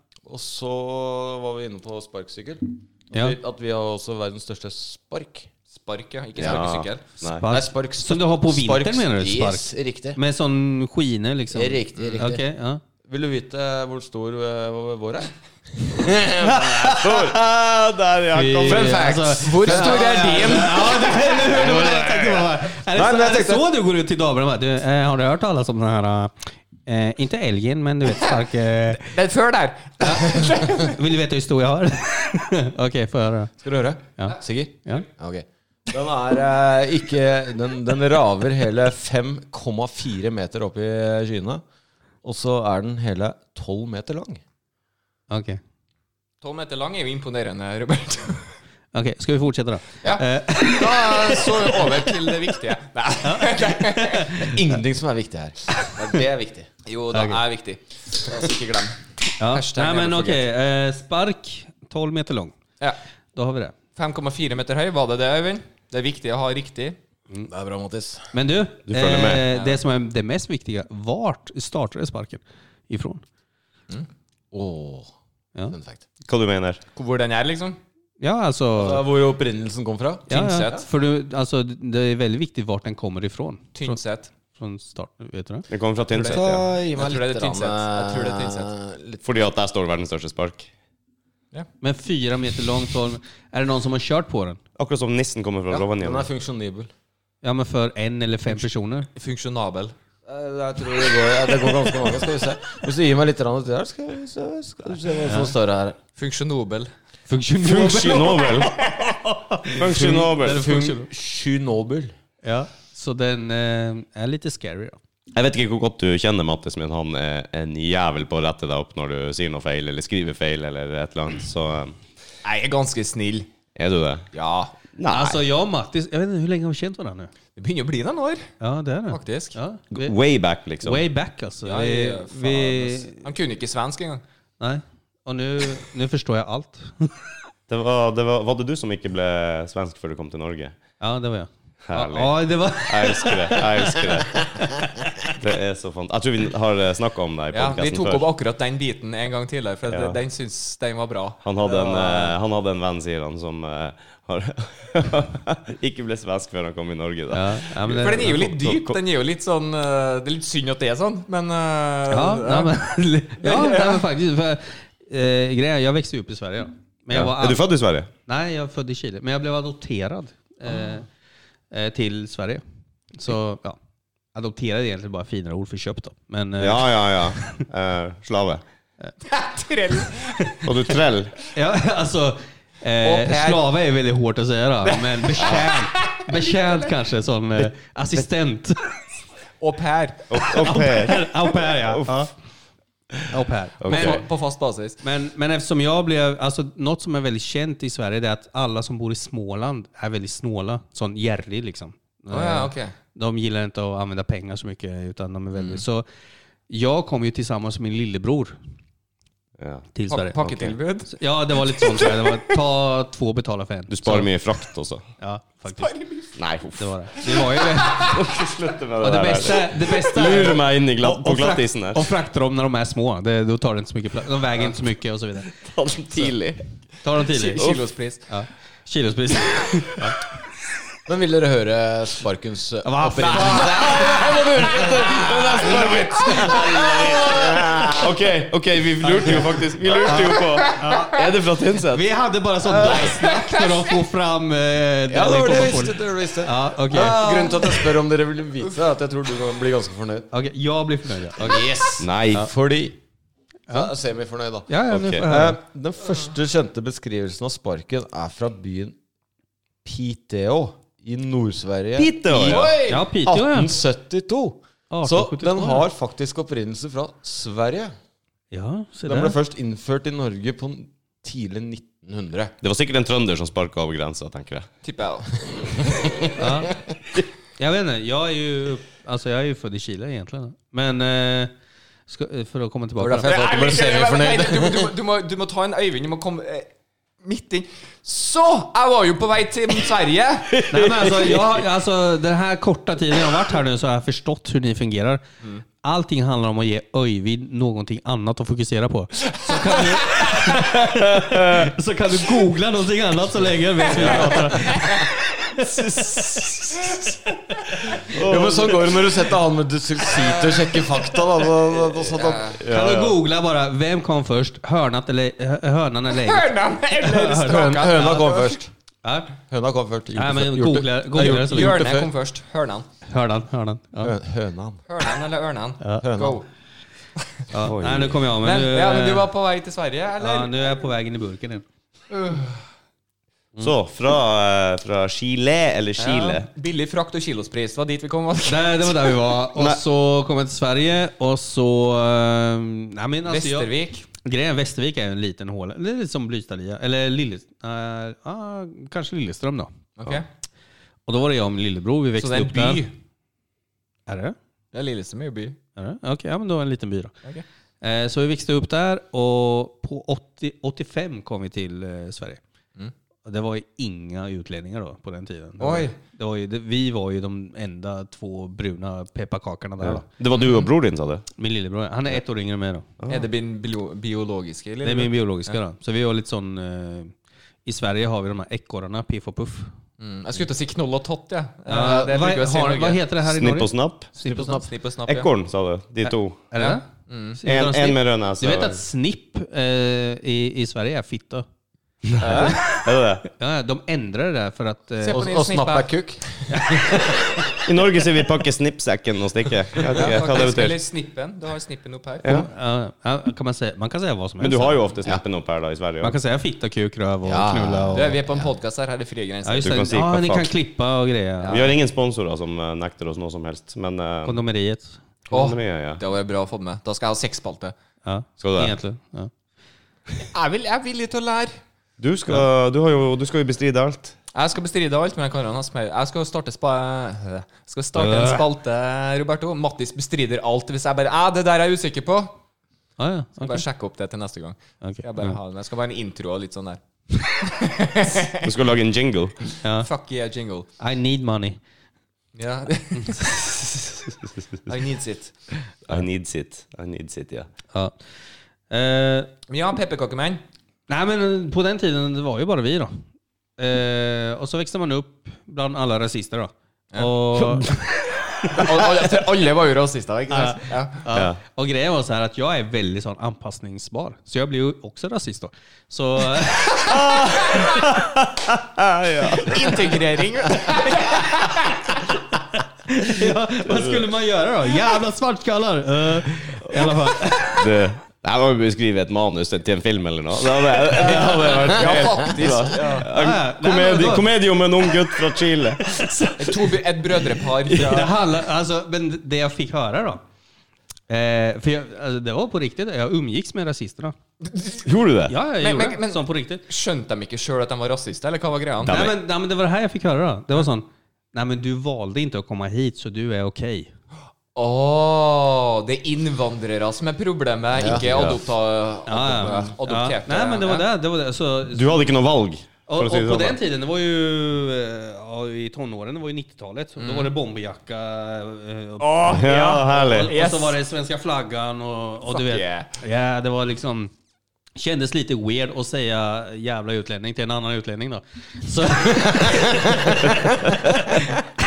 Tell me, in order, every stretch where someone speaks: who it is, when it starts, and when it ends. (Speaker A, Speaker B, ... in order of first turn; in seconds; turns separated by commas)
Speaker A: 0.3-5.5, Speaker B: 5.7-7.1, Speaker C: 6.4-7.5, Speaker D: 7.3-12.8, Speaker A: 7.5-10.2, Speaker A: 11.5-12.4, Speaker A: 13.1-17.3, Speaker C: 16.4-19.1, Speaker D: 18.3-29.1, Speaker A: 18.7-20.7, Speaker B: 18.8-21.1, Speaker A: 21.5-23.7, Speaker B: 29.0-31.0, Speaker D: 30.0-33.5, Speaker A: 33.6-41.6, Speaker D: 34.2-35.1, Speaker A: 42.2-44.4, Speaker D: 45.3-45.6, Speaker B: 46.4-48.5, Speaker D: 48.9-52.1, Speaker B: 50.0-54.4, Speaker D: 53.2-54.6, Speaker A: 54.4-56.7, Speaker B: 56.9-60.5, Speaker D: 57.1-57.4, Speaker D: 59.4-62.6, Speaker D: 63.4-63.8, Speaker B: 64.0-67.0, Speaker A: 67.5-68.3, Speaker D: 68.3-73.2, Speaker C: 68.9-69.5, Speaker B: 69.5-69.8, Speaker A: 74.5-75.1, Speaker A: 75.7-76.0, Speaker C: 76.2-76.8, Speaker B: 77.0-77.8, Speaker D: 78.2-79.0, Speaker A: 78.8-80.8, Speaker B: 80.3-80.8, Speaker D: 80.3-85.7, Speaker B: 83.8-84.3, Speaker C: 85.7-86.6, Speaker B: 86.1-88.7, Speaker A: 86.2-89.2, Speaker C: 89.2-90.7, Speaker D: 91.8-94.6, Speaker C: 94.8-96.3, Speaker A: 95.7-96.9, Speaker D: 97.4-99.1, Speaker B: 99.2-99.9, Speaker A: 100.3-106.0, Speaker D: 105.2-105.5, Speaker B: 106.2-106.9, Speaker D: 107.3-111.1, Speaker C: 107.6-108.8, Speaker C: 109.7-110.7, Speaker A: 109.8-112.1, Speaker D: 112.4-115.0, Speaker C: 115.3-122.0, Speaker B: 122.4-123.5, Speaker C: 123.8-124.3, Speaker B: 124.3-124.8, Speaker C: 125.0-125.4, Speaker D: 125.1-127.3, Speaker B: 127.6-128.5, Speaker D: 128.6-130.2, Speaker B: 129.1-129.6, Speaker C: 129.9-131.0, Speaker D: 130.8-133.2, Speaker B: 131.7-134.2, Speaker D: 134.6-137.2, Speaker C: 137.7-140.8, Speaker D: 141.0-144.7, Speaker C: 141.9-144.6, Speaker C: 145.3-148.3, Speaker B: 147.5-152.3, Speaker C: 149.9-150.2, Speaker C: 151.4-159.0, Speaker D: 157.3-158.5, Speaker B: 157.9-162.8, Speaker D: 162.1-167.7, Speaker B: 163.4-164.1, Speaker C: 167.1-168.1, Speaker D: 168.3-171.1, Speaker D: 171.7-172.6, Speaker D: 173.2-173.8, Speaker D: 174.3-177.7, Speaker C: 176.6-178.6, Speaker B: 179.2-180.7, Speaker C: 180.6-181.3, Speaker D: 181.5-189.0, Speaker B: 183.0-183.7, Speaker B: 184.9-186.9, Speaker B: 189.6-190.7, Speaker C: 190.3-192.1, Speaker D: 190.5-192.3, Speaker D: 193.3-194.2, Speaker C: 193.8-194.2, Speaker B: 193.9-195.0, Speaker D: 195.0-206.1, Speaker B: 202.3-202.9, Speaker B: 205.6-205.8, Speaker D: 206.7-208.6, Speaker C: 209.6-209.9, Speaker D: 209.9-210.4, Speaker B: 210.1-212.6, Speaker C: 210.4-210.7, Speaker D: 211.1-214.3, Speaker C: 213.9-215.1, Speaker D: 215.2-215.9, Speaker B: 215.7-216.3, Speaker C: 216.4-217.2, Speaker D: 216.8-218.2, Speaker B: 217.3-218.3, Speaker C: 217.9-222.1, Speaker D: 219.0-225.5, Speaker C: 225.5-226.4, Speaker B: 226.1-226.6, Speaker D: 227.0-227.8, Speaker B: 227.2-228.3, Speaker D: 228.3-230.2, Speaker A: 231.1-238.2, Speaker D: 232.8-234.2, Speaker C: 233.7-242.0, Speaker B: 233.9-235.0, Speaker B: 236.4-237.5, Speaker D: 239.0-241.2, Speaker B: 240.4-241.1, Speaker D: 241.9-247.5, Speaker C: 242.7-243.0, Speaker B: 242.8-243.9, Speaker A: 245.1-250.3, Speaker B: 246.9-247.9, Speaker D: 250.3-251.7, Speaker A: 251.4-253.0, Speaker C: 252.0-252.5, Speaker A: 253.7-259.0, Speaker D: 254.7-255.6, Speaker C: 254.9-255.3, Speaker A: 259.8-267.9, Speaker C: 261.9-262.8, Speaker B: 262.4-262.8, Speaker D: 262.9-263.8, Speaker D: 264.9-265.9, Speaker D: 268.5-269.4, Speaker A: 269.1-272.5, Speaker C: 272.6-274.7, Speaker B: 274.8-275.9, Speaker D: 276.4-276.8, Speaker D: 277.6-281.5, Speaker D: 282.1-283.4, Speaker A: 283.0-284.9, Speaker B: 283.2-286.7, Speaker B: 287.2-290.7, Speaker C: 290.6-291.6, Speaker D: 290.7-295.2, Speaker D: 295.8-306.4, Speaker B: 299.4-300.8, Speaker C: 301.2-301.7, Speaker C: 303.9-304.4, Speaker A: 303.9-305.0, Speaker B: 304.0-305.1, Speaker B: 305.6-307.2, Speaker A: 308.0-312.6, Speaker C: 308.1-309.0, Speaker B: 310.1-312.6, Speaker C: 312.6-313.2, Speaker D: 312.7-318.1, Speaker B: 316.1-318.6, Speaker A: 317.6-318.7, Speaker D: 319.0-319.4, Speaker A: 319.5-322.1, Speaker D: 320.1-321.8, Speaker B: 321.2-322.9, Speaker D: 323.1-324.1, Speaker A: 324.0-324.8, Speaker B: 324.9-326.5, Speaker D: 325.8-326.1, Speaker A: 326.0-326.4, Speaker D: 327.5-329.3, Speaker C: 327.6-328.3, Speaker B: 328.4-330.9, Speaker D: 330.2-331.6, Speaker B: 332.1-332.5, Speaker C: 333.6-336.5, Speaker B: 336.0-339.2, Speaker D: 338.5-350.2, Speaker C: 339.6-339.8, Speaker B: 343.3-344.1, Speaker B: 350.0-350.2, Speaker D: 351.1-352.9, Speaker B: 352.2-352.9, Speaker D: 354.1-354.4, Speaker B: 354.7-355.6, Speaker D: 355.8-357.1, Speaker D: 357.8-362.4, Speaker D: 363.2-370.1, Speaker B: 365.6-366.0, Speaker C: 369.8-371.2, Speaker D: 371.4-372.9, Speaker C: 373.0-373.2, Speaker B: 373.1-375.6, Speaker D: 374.8-377.1, Speaker D: 377.7-379.7, Speaker B: 380.0-383.0, Speaker D: 381.7-384.6, Speaker C: 383.2-384.1, Speaker A: 384.2-384.7, Speaker B: 384.5-385.3, Speaker C: 385.1-386.4, Speaker D: 386.1-391.5, Speaker B: 386.6-387.4, Speaker C: 387.4-388.8, Speaker C: 392.1-393.2, Speaker A: 392.2-392.6, Speaker D: 392.3-395.2, Speaker B: 395.0-395.9, Speaker A: 395.1-397.7, Speaker D: 396.5-397.1, Speaker C: 397.6-400.8, Speaker B: 399.9-402.4, Speaker C: 402.2-402.5, Speaker D: 402.2-404.9, Speaker C: 404.4-406.2, Speaker D: 406.0-408.2, Speaker A: 407.2-408.5, Speaker B: 407.9-409.9, Speaker D: 409.4-411.7, Speaker C: 409.6-410.5, Speaker B: 411.4-411.7, Speaker C: 411.5-414.4, Speaker D: 414.2-415.0, Speaker C: 415.3-416.0, Speaker B: 415.3-417.8, Speaker D: 418.0-419.3, Speaker C: 418.4-418.8, Speaker B: 420.2-421.6, Speaker C: 422.0-424.1, Speaker B: 424.3-432.4, Speaker D: 427.9-428.4, Speaker D: 433.0-433.7, Speaker B: 433.4-438.5, Speaker D: 434.8-435.4, Speaker C: 438.4-439.5, Speaker B: 439.8-440.7, Speaker D: 440.8-441.6, Speaker B: 442.4-443.9, Speaker B: 444.7-445.3, Speaker C: 445.9-447.5, Speaker D: 448.7-449.3, Speaker B: 449.5-450.4, Speaker D: 450.9-453.0, Speaker D: 453.6-458.7, Speaker B: 456.9-461.1, Speaker D: 460.3-467.3, Speaker C: 461.1-461.4, Speaker C: 466.9-470.0, Speaker B: 469.3-472.0, Speaker D: 472.9-477.7, Speaker C: 473.6-474.1, Speaker C: 476.7-486.5, Speaker B: 480.9-483.1, Speaker D: 481.0-481.7, Speaker D: 483.1-484.3, Speaker B: 486.0-488.1, Speaker D: 487.8-490.2, Speaker D: 491.1-494.2, Speaker B: 494.4-494.8, Speaker C: 494.8-495.3, Speaker D: 495.3-496.6, Speaker B: 495.6-499.1, Speaker C: 498.8-499.1, Speaker D: 498.9-503.9, Speaker B: 504.6-510.9, Speaker A: 507.8-508.3, Speaker C: 507.9-508.5, Speaker D: 509.1-512.0, Speaker C: 511.7-513.6, Speaker D: 512.9-524.1, Speaker B: 517.0-517.3, Speaker B: 519.0-520.8, Speaker C: 519.3-520.4, Speaker B: 522.3-522.9, Speaker D: 524.8-531.4, Speaker A: 529.2-531.3